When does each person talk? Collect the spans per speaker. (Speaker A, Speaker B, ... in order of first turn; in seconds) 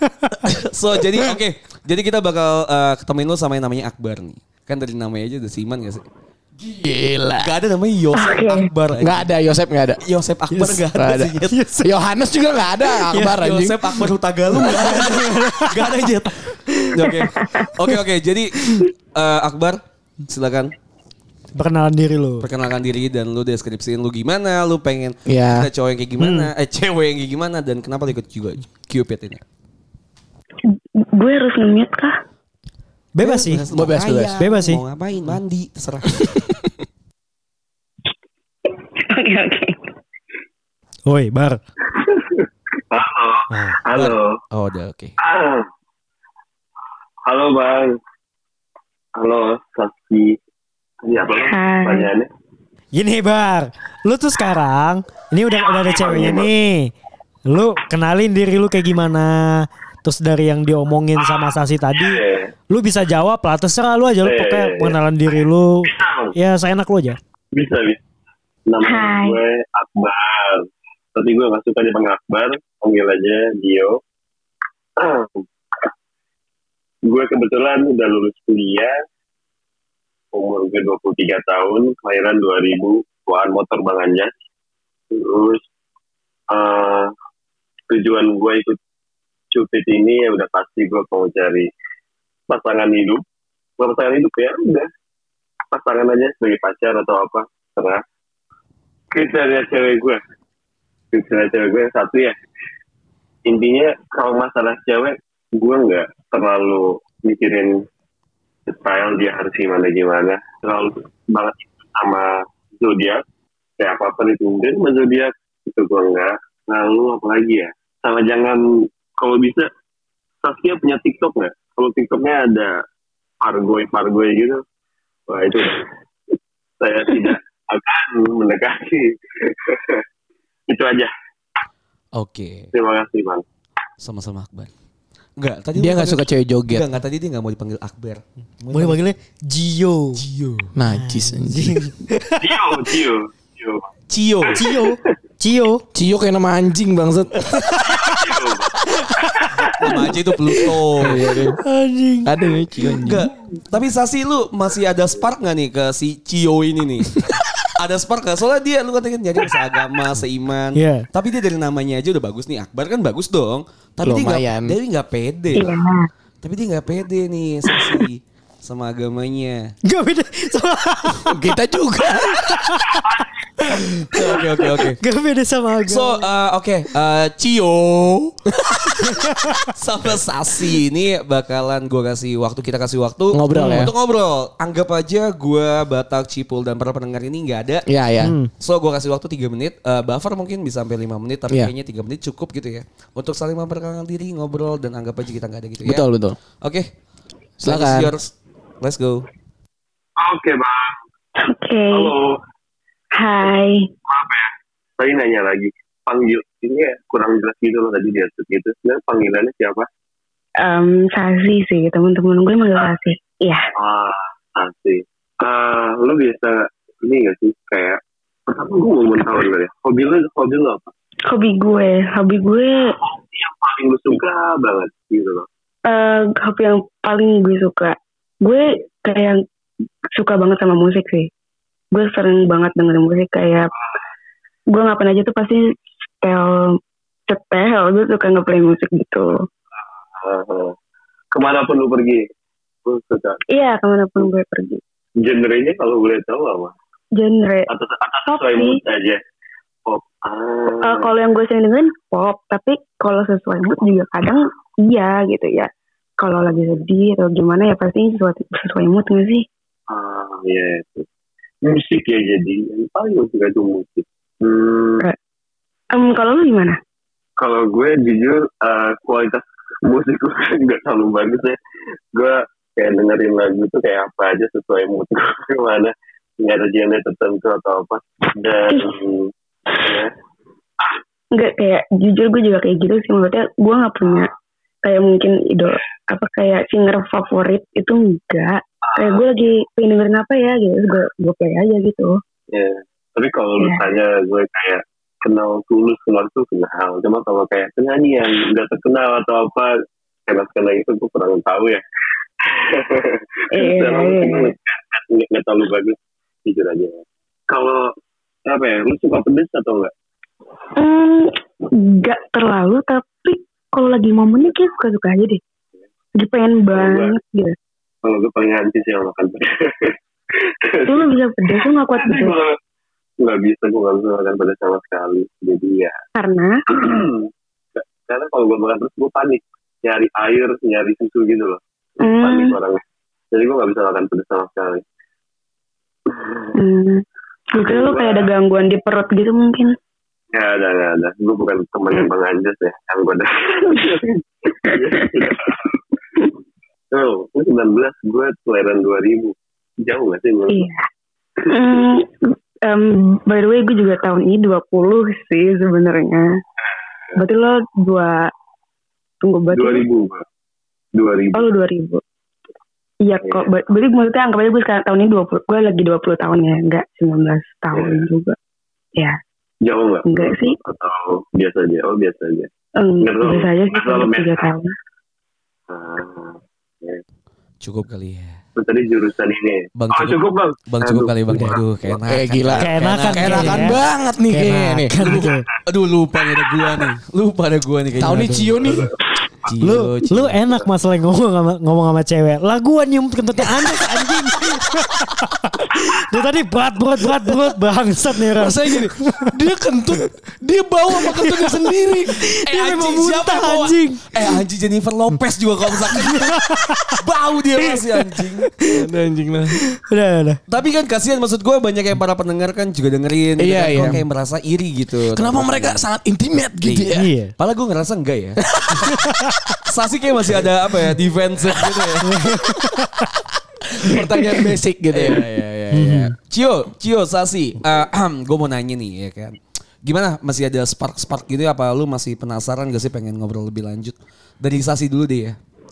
Speaker A: 0.4-6.0, 7.4-9.3, 10.0-11.6, 13.3-20.7, 22.4-29.4, 33.2-36.2, 43.9-45.1, 132.1-132.7, 134.0-134.7, 135.4-139.0, 140.2-140.7, 144.1-144.6, 149.8-151.2, 153.0-157.2, 157.8-165.7, 166.4-169.7, 174.1-175.0, 175.9-178.3, 179.7-187.9, 188.6-196.0, 196.6-196.9, 197.6-199.2, 377.6-378.4, 379.8-383.8, 385.0-388.8, 389.4-390.4, 402.4-406.4, 407.0-408.5, 410.5-415.8, 416.6-418.4, 419.7-422.1, 424.9-435.4
Speaker B: 6.6-7.5, 9.0-10.0, 10.6-14.0, 14.6-15.0, 25.3-25.7, 33.7-34.4, 135.8-136.9, 140.7-141.9, 145.9-147.7, 151.0-151.6, 152.2-153.3, 164.0-164.8, 171.2-172.7, 183.3-183.9, 187.9-188.3, 195.8-196.4, 197.6-198.1, 382.1-385.2, 388.0-388.9, 398.4-402.2, 408.7-409.6, 413.4-414.0, 415.1-417.1, 418.6-419.0, 423.8-425.2
Speaker C: 8.2-8.7, 17.4-17.7, 31.1-32.1, 39.1-39.8, 51.3-52.1, 68.8-69.4, 165.5-166.1, 201.4-202.1, 203.2-203.9, 210.6-213.6, 221.3-222.9, 225.9-229.4, 230.1-231.3, 231.9-233.7, 234.7-235.6, 236.2-236.8, 237.3-239.3, 243.5-244.8, 247.2-247.7, 248.2-248.8, 250.8-259.4, 265.9-266.8, 281.3-284.3, 284.8-292.1, 303.5-304.5, 310.8-315.4, 316.2-317.5, 320.9-322.4, 326.1-326.5, 332.0-332.6, 336.6-337.0, 337.5-339.7, 350.5-350.8, 351.5-356.2, 357.1-358.2, 359.2-359.8, 361.3-362.0, 363.0-368.4, 370.0-370.6, 372.8-374.7
Speaker D: 11.5-11.9, 13.1-13.4, 14.7-15.7, 21.5-22.4, 26.2-26.5, 33.1-33.6, 34.4-34.8, 41.1-41.6, 43.5-43.8, 52.9-56.9, 57.5-67.2, 138.7-140.2, 140.9-142.4, 144.6-145.8, 151.5-152.3, 160.7-161.1, 169.9-171.3, 172.4-173.0, 175.0-176.2, 179.1-179.6, 183.5-183.8, 188.2-188.5, 382.6-385.4, 388.0-388.4, 389.6-399.3, 401.0-401.4, 402.2-404.1, 406.1-406.7, 409.9-410.4, 416.9-417.3, 422.0-422.7, 425.7-426.1
Speaker E: 41.9-44.4, 45.2-45.7, 47.2-48.0, 49.1-50.4, 51.0-52.3, 55.6-56.5, 61.2-62.5, 64.2-65.0, 65.9-66.3, 67.5-68.0, 68.7-74.0, 75.0-75.9, 77.1-78.9, 80.3-84.3, 85.1-85.6, 86.5-87.1, 87.9-88.8, 89.5-91.7, 92.5-93.2, 93.8-94.9, 95.7-98.0, 99.1-100.2, 101.1-102.3, 103.5-107.8, 108.7-113.2, 113.8-119.7, 120.4-122.8, 123.4-124.6, 125.3-125.9, 126.8-130.0, 130.7-131.1, 132.7-133.4, 142.4-143.9, 144.4-145.1, 147.8-149.7, 173.0-173.4, 200.2-201.0, 201.9-202.4, 204.1-209.9, 213.8-220.9, 223.0-225.5, 240.2-240.7, 241.3-242.2, 242.8-243.4, 245.2-246.7, 247.7-249.2, 249.8-251.1, 259.9-261.1, 261.6-265.0, 267.4-271.6, 272.1-280.1, 288.9-289.3, 292.5-299.7, 300.3-301.8, 302.4-307.9, 308.4-309.9, 316.7-317.1, 318.0-321.1, 322.0-322.6, 323.2-325.9, 326.7-331.6, 332.2-332.8, 333.3-334.8, 336.1-336.5, 337.6-338.3, 340.3-345.7, 346.9-350.6, 359.5-360.2, 360.9-361.5, 367.7-368.1, 369.6-372.5, 373.0-374.4, 375.7-377.0, 378.6-382.0